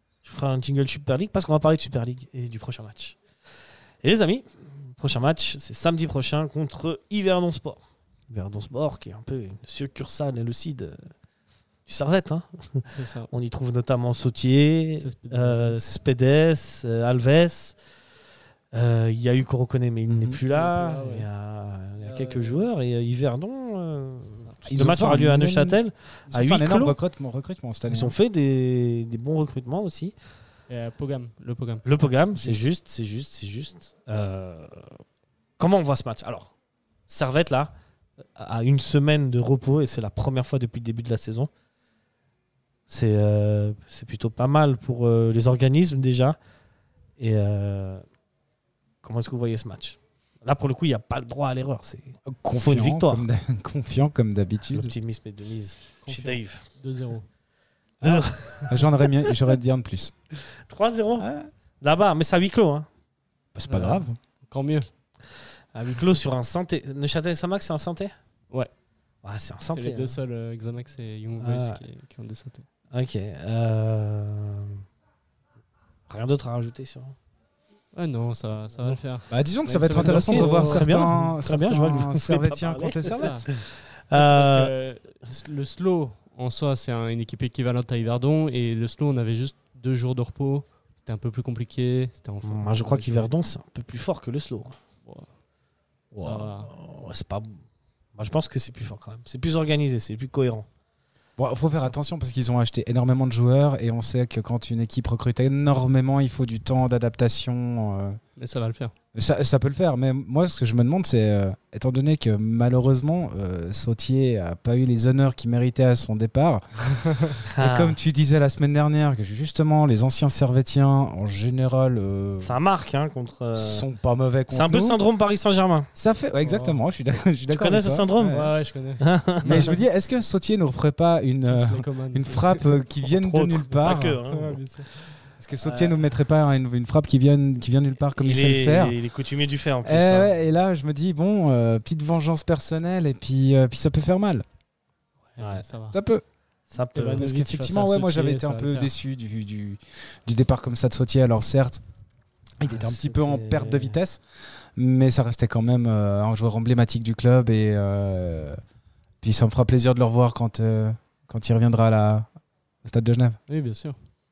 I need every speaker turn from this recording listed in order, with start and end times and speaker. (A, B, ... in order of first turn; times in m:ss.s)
0:00.2-0:03.2 A
0:04.0-0:11.1 A
0:11.9-0:17.8 A
0:12.9-0:13.3 B
0:15.0-0:15.9 B
0:18.7-0:27.0 A
0:20.1-0:20.4 C
0:20.5-0:21.3 B
0:22.0-0:22.7 B
0:24.6-0:28.2 C
0:27.9-0:30.1 A
0:30.7-0:31.8 B
0:31.8-0:35.0 A
0:32.4-0:32.7 C
0:35.6-0:36.5 A
0:37.1-0:37.7 A
0:38.3-0:41.5 A
0:42.9-0:46.4 A
0:47.2-0:48.0 A
0:49.0-0:53.3 A
0:52.3-0:55.0 C
0:54.7-0:56.6 A
0:56.0-0:57.3 B
0:58.0-0:58.8 A
0:58.0-1:00.1 C
1:00.6-1:01.3 A
1:01.2-1:01.5 C
1:01.8-1:02.9 A
1:03.6-1:04.2 C
1:03.7-1:04.9 B
1:05.7-1:08.1 A
1:09.2-1:10.2 A
1:09.7-1:12.7 B
1:11.4-1:11.8 A
1:12.9-1:14.8 A
1:16.1-1:17.1 A
1:17.9-1:21.1 B
1:19.3-1:23.4 C
1:20.0-1:24.7 A
1:23.1-1:23.4 B
1:24.1-1:33.3 B
1:32.4-1:34.8 A
1:36.1-1:37.6 A
1:36.2-1:36.7 B
1:38.2-1:40.7 A
1:41.4-1:48.2 C
1:48.4-1:48.9 B
1:49.1-1:56.6 C
1:57.5-1:58.0 A
1:57.6-2:02.6 C
2:02.4-2:03.9 A
2:03.5-2:05.0 C
2:04.5-2:05.9 A
2:05.9-2:08.5 C
2:06.4-2:06.8 B
2:07.5-2:09.7 A
2:08.3-2:09.0 B
2:09.4-2:14.2 C
2:11.5-2:12.4 B
2:13.0-2:14.6 A
2:14.3-2:14.9 B
2:15.4-2:19.0 C
2:15.6-2:16.1 A
2:18.2-2:20.3 A
2:19.8-2:24.4 C
2:25.3-2:26.0 B
2:25.4-2:25.7 A
2:25.9-2:26.2 C
2:26.7-2:27.3 A
2:26.9-2:28.9 B
2:27.1-2:31.8 C
2:32.6-2:34.2 C
2:32.6-2:34.0 A
2:34.8-2:38.6 C
2:39.2-2:42.3 C
2:42.8-2:43.4 C
2:43.5-2:44.0 B